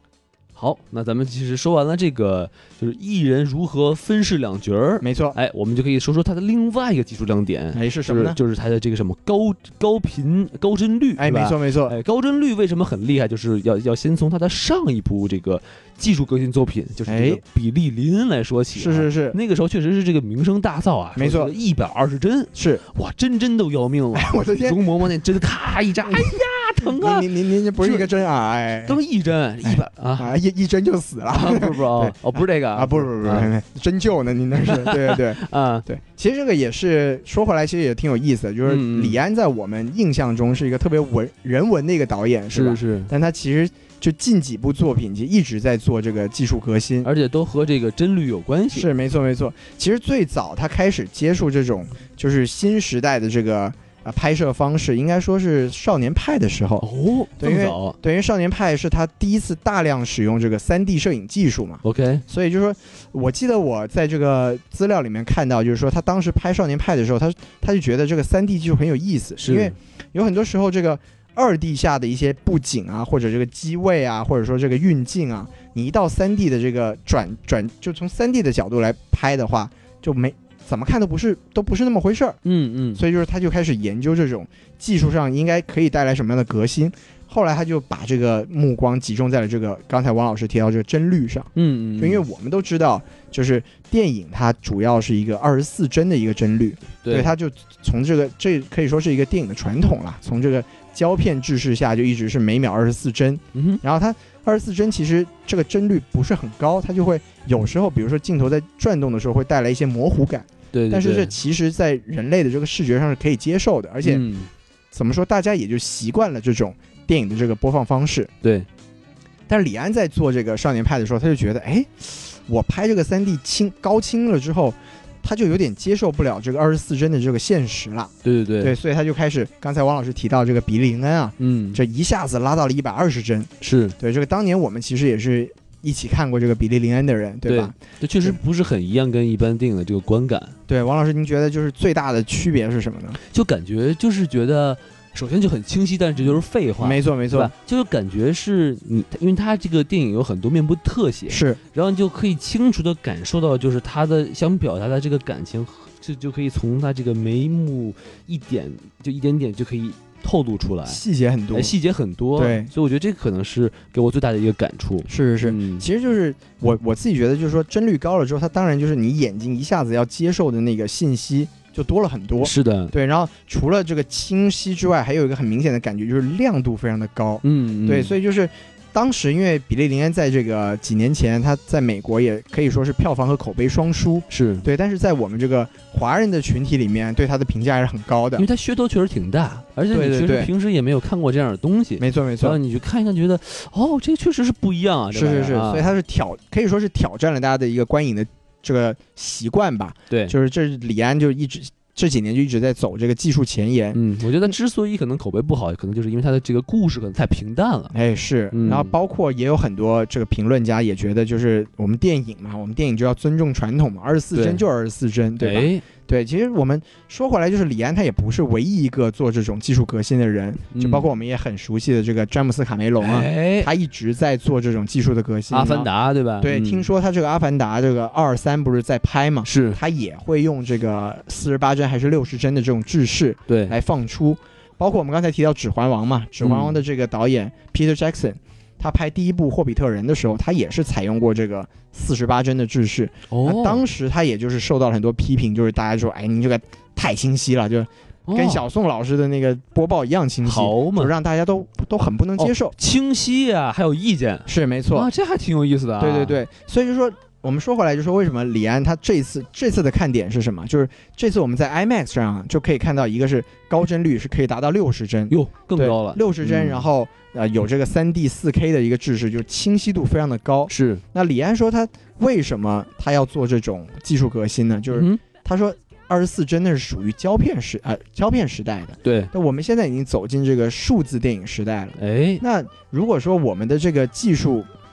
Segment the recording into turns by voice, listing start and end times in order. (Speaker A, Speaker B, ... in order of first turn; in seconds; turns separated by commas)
Speaker A: 0.6-28.1, Speaker B: 5.0-5.4, Speaker B: 7.7-8.4, Speaker B: 11.2-11.9, Speaker B: 17.1-17.4, Speaker B: 18.7-19.4, Speaker B: 21.1-21.5, Speaker B: 22.5-22.8, Speaker B: 24.1-24.8, Speaker B: 26.0-29.0, Speaker A: 28.8-30.3, Speaker B: 29.6-32.1, Speaker A: 31.3-33.5, Speaker B: 32.7-47.1, Speaker A: 34.6-35.9, Speaker A: 38.6-39.2, Speaker A: 42.5-43.1, Speaker A: 47.0-48.9, Speaker B: 48.7-56.8, Speaker A: 56.8-58.0, Speaker B: 57.4-82.4, Speaker A: 61.8-62.2, Speaker A: 69.4-69.7, Speaker A: 82.4-83.0, Speaker B: 83.0-114.2, Speaker A: 91.5-92.2, Speaker A: 97.0-97.3, Speaker A: 103.5-103.8, Speaker A: 110.7-111.3, Speaker A: 114.0-114.5, Speaker B: 114.9-118.3, Speaker B: 119.5-138.4, Speaker A: 128.2-128.8, Speaker A: 131.4-131.8, Speaker A: 133.6-133.9, Speaker A: 137.4-140.5, Speaker B: 140.7-143.2, Speaker A: 143.3-161.0, Speaker B: 146.8-147.5, Speaker B: 151.3-151.6, Speaker B: 160.9-161.7, Speaker A: 161.5-165.8, Speaker B: 162.3-162.7, Speaker B: 165.1-188.4, Speaker A: 172.4-172.9, Speaker A: 177.4-178.2, Speaker A: 184.3-184.7, Speaker A: 188.4-195.9, Speaker B: 189.9-190.5, Speaker B: 192.0-192.6, Speaker B: 195.1-204.5, Speaker A: 200.1-200.3, Speaker A: 203.9-207.9, Speaker B: 207.9-225.9, Speaker A: 208.5-208.9, Speaker A: 214.3-214.6, Speaker A: 215.4-215.8, Speaker A: 220.7-221.1, Speaker A: 223.0-223.7, Speaker A: 225.5-226.9, Speaker B: 226.4-252.7, Speaker A: 229.4-229.8, Speaker A: 233.5-233.8, Speaker A: 236.4-236.8, Speaker A: 243.3-243.8, Speaker A: 248.3-248.6, Speaker A: 250.4-251.1, Speaker A: 252.4-256.4, Speaker B: 254.5-255.1, Speaker B: 256.0-284.7, Speaker A: 265.3-266.9, Speaker A: 270.7-271.0, Speaker A: 274.9-275.2, Speaker A: 279.0-279.3, Speaker A: 282.0-282.4